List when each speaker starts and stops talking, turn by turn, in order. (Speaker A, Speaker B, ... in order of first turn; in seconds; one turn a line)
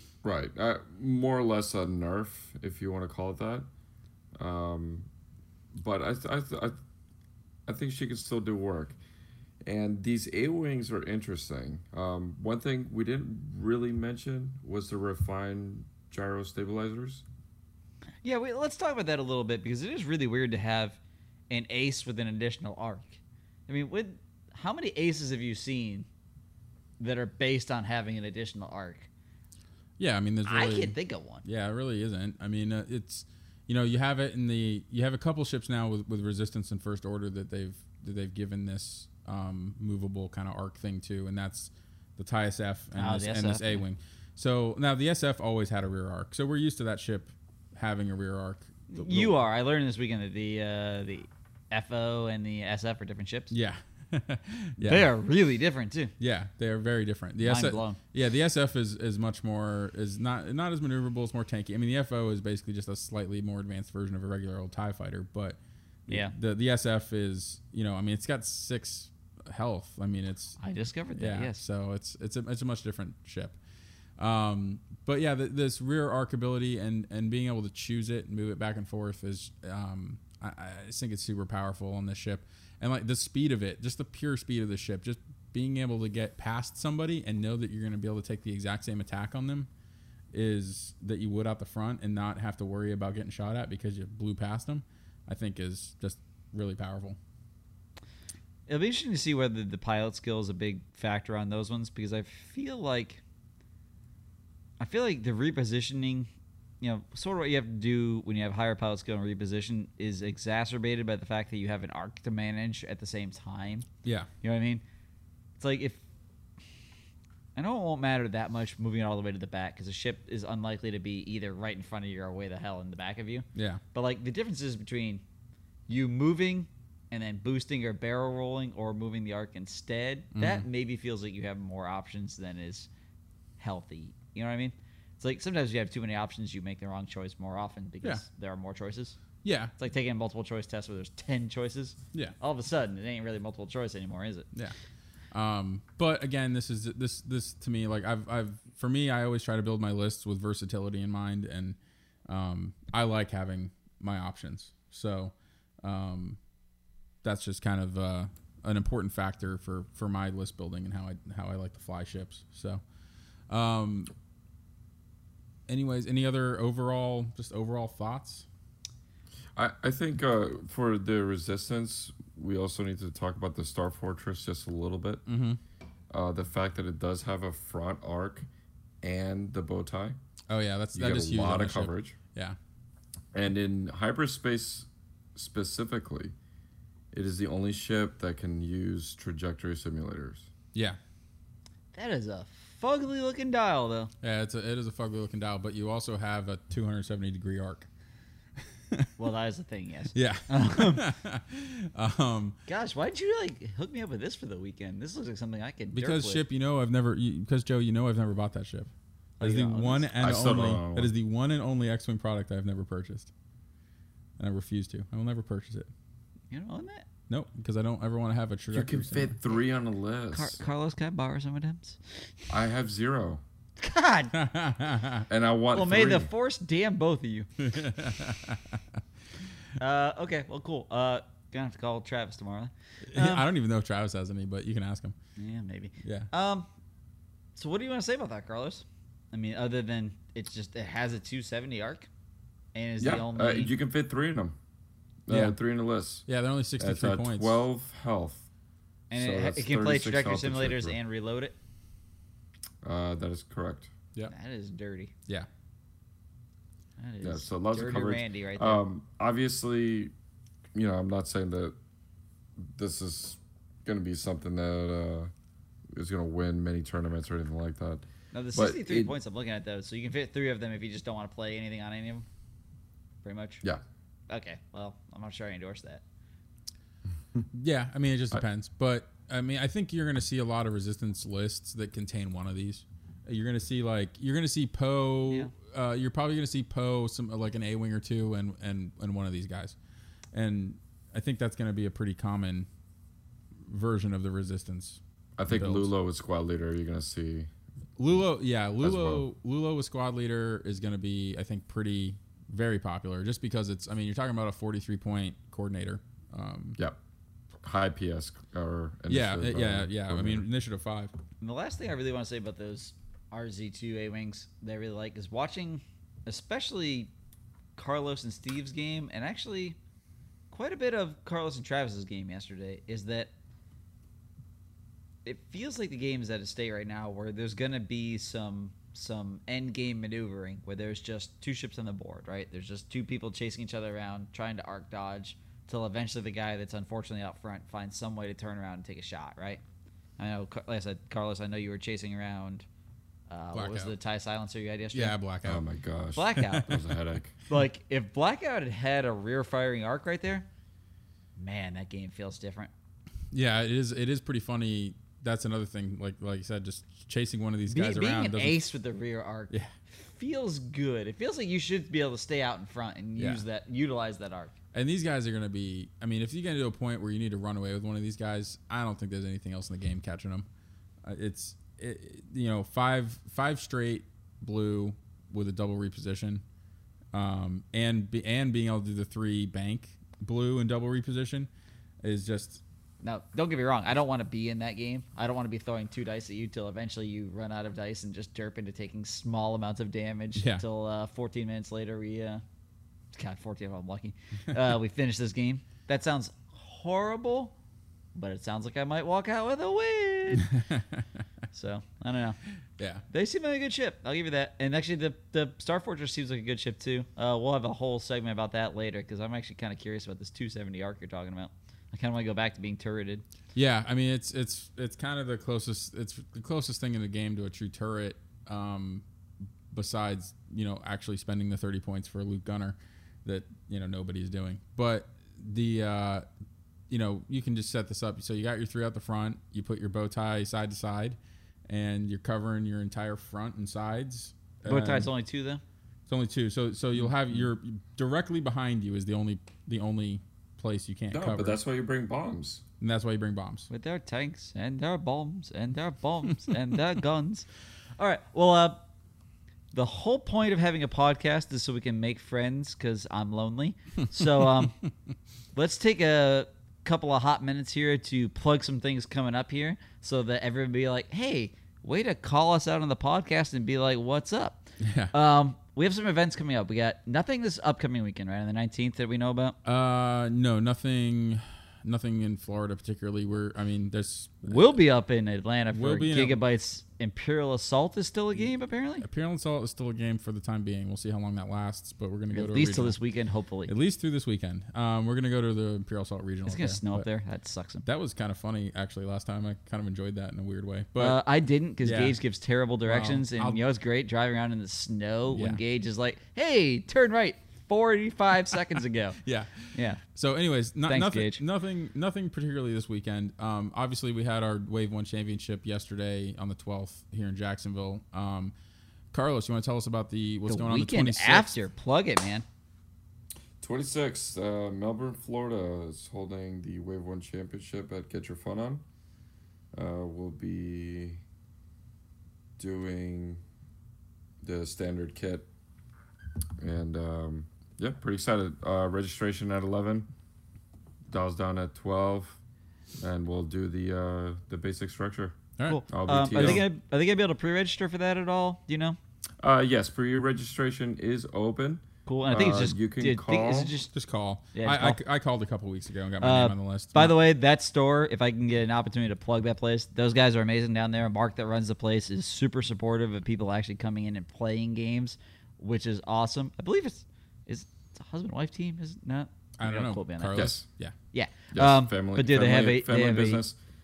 Speaker A: 0.2-3.7
Speaker A: 4.4-5.1
Speaker A: 5.8-6.8
Speaker A: 7.7-9.0
Speaker A: 9.7-17.2
Speaker B: 18.2-21.0
Speaker B: 21.5-26.1
Speaker B: 27.0-29.1
Speaker C: 30.0-49.4
Speaker B: 30.5-31.4
Speaker B: 43.0-43.8
Speaker B: 48.9-53.5
Speaker C: 53.5-55.1
Speaker B: 54.8-56.1
Speaker C: 56.2-70.6
Speaker B: 57.4-58.0
Speaker B: 66.1-66.3
Speaker B: 70.6-71.6
Speaker C: 71.1-73.6
Speaker C: 74.2-89.7
Speaker C: 90.3-97.2
Speaker B: 98.7-103.2
Speaker B: 104.8-106.3
Speaker B: 106.8-113.9
Speaker C: 114.0-114.3
Speaker B: 114.4-114.8
Speaker B: 115.6-116.0
Speaker B: 117.5-125.2
Speaker C: 123.5-123.8
Speaker B: 125.9-132.9
Speaker C: 130.3-130.7
Speaker B: 133.6-139.2
Speaker C: 139.4-139.7
Speaker B: 139.8-144.5
Speaker C: 145.3-156.4
Speaker C: 157.2-162.8
Speaker C: 163.5-164.1
Speaker C: 165.7-168.5
Speaker A: 169.6-175.2
Speaker C: 175.3-175.6
Speaker A: 176.1-178.5
Speaker A: 179.0-180.2
Speaker C: 180.5-182.6
Speaker A: 180.9-182.2
Speaker A: 183.3-186.3
Speaker A: 187.1-190.5
Speaker C: 190.7-191.0
Speaker B: 191.9-194.1
Speaker C: 194.2-197.9
Speaker C: 198.6-199.1
Speaker B: 199.2-201.0
Speaker C: 200.1-202.6
Speaker B: 202.7-206.4
Speaker C: 205.9-213.3
Speaker B: 209.4-210.1
Speaker A: 210.2-211.1
Speaker C: 214.4-215.9
Speaker B: 216.5-217.1
Speaker C: 217.3-219.4
Speaker A: 218.7-220.6
Speaker B: 220.3-222.5
Speaker A: 222.5-223.4
Speaker B: 223.8-224.3
Speaker C: 224.3-225.3
Speaker A: 225.3-226.3
Speaker B: 225.7-227.5
Speaker C: 227.6-229.0
Speaker B: 229.8-233.5
Speaker C: 233.1-235.2
Speaker B: 235.4-236.7
Speaker C: 236.0-236.3
Speaker B: 237.6-242.1
Speaker B: 242.7-243.7
Speaker A: 243.0-244.6
Speaker A: 245.3-246.3
Speaker C: 245.3-245.6
Speaker C: 246.3-247.6
Speaker A: 246.8-248.5
Speaker A: 249.1-251.0
Speaker B: 249.1-251.6
Speaker A: 252.8-253.9
Speaker B: 254.3-255.1
Speaker B: 257.0-258.8
Speaker A: 257.2-260.1
Speaker A: 260.8-261.8
Speaker A: 262.6-265.3
Speaker A: 265.9-269.1
Speaker B: 268.3-272.3
Speaker B: 273.2-273.6
Speaker B: 274.3-276.0
Speaker C: 277.5-289.8
Speaker C: 290.3-292.7
Speaker C: 293.6-295.9
Speaker A: 295.4-297.5
Speaker C: 298.0-306.8
Speaker A: 298.8-299.2
Speaker A: 307.6-310.4
Speaker C: 309.1-311.1
Speaker B: 311.4-317.1
Speaker B: 317.8-319.8
Speaker B: 320.5-323.3
Speaker B: 325.2-339.6
Speaker B: 340.2-342.7
Speaker B: 343.3-345.1
Speaker C: 343.5-343.9
Speaker C: 344.9-345.6
Speaker A: 345.4-347.4
Speaker B: 346.2-346.8
Speaker B: 347.5-350.5
Speaker B: 351.4-352.7
Speaker C: 353.3-358.7
Speaker B: 357.7-364.5
Speaker C: 363.2-363.4
Speaker C: 364.7-370.5
Speaker C: 371.0-376.4
Speaker C: 377.1-381.5
Speaker C: 382.0-382.6
Speaker B: 383.0-392.4
Speaker C: 390.4-390.6
Speaker B: 393.1-397.6
Speaker B: 398.1-400.5
Speaker C: 400.5-401.2
Speaker B: 401.5-402.4
Speaker C: 402.8-403.0
Speaker B: 403.1-413.2
Speaker C: 413.6-419.1
Speaker C: 419.7-426.2
Speaker C: 426.9-431.2
Speaker C: 431.7-435.1
Speaker B: 434.7-435.6
Speaker C: 436.1-441.6
Speaker A: 441.1-442.6
Speaker C: 442.8-443.7
Speaker B: 443.7-447.5
Speaker B: 448.0-448.8
Speaker B: 449.7-454.8
Speaker C: 454.2-454.9
Speaker B: 455.5-469.6
Speaker C: 464.8-465.1
Speaker C: 469.6-474.8
Speaker B: 474.5-479.1
Speaker C: 475.7-476.4
Speaker C: 479.0-483.0
Speaker B: 482.3-483.7
Speaker C: 483.7-487.1
Speaker B: 486.5-487.9
Speaker C: 487.9-491.2
Speaker B: 491.0-499.2
Speaker C: 491.8-492.2
Speaker C: 492.9-493.6
Speaker C: 495.3-495.6
Speaker C: 499.2-508.5
Speaker B: 499.7-500.0
Speaker B: 500.9-501.4
Speaker C: 509.1-511.6
Speaker B: 510.5-512.5
Speaker A: 513.6-518.8
Speaker A: 519.7-521.2
Speaker A: 522.6-523.4
Speaker A: 524.4-525.5
Speaker A: 526.6-530.1
Speaker A: 531.1-532.4
Speaker A: 533.0-536.6
Speaker C: 535.6-536.6
Speaker B: 535.7-539.0
Speaker A: 539.4-543.8
Speaker B: 542.1-543.9
Speaker C: 543.9-547.1
Speaker B: 544.5-545.0
Speaker B: 546.2-560.6
Speaker C: 559.6-561.0
Speaker A: 560.3-560.6
Speaker B: 561.1-563.4
Speaker A: 561.5-563.6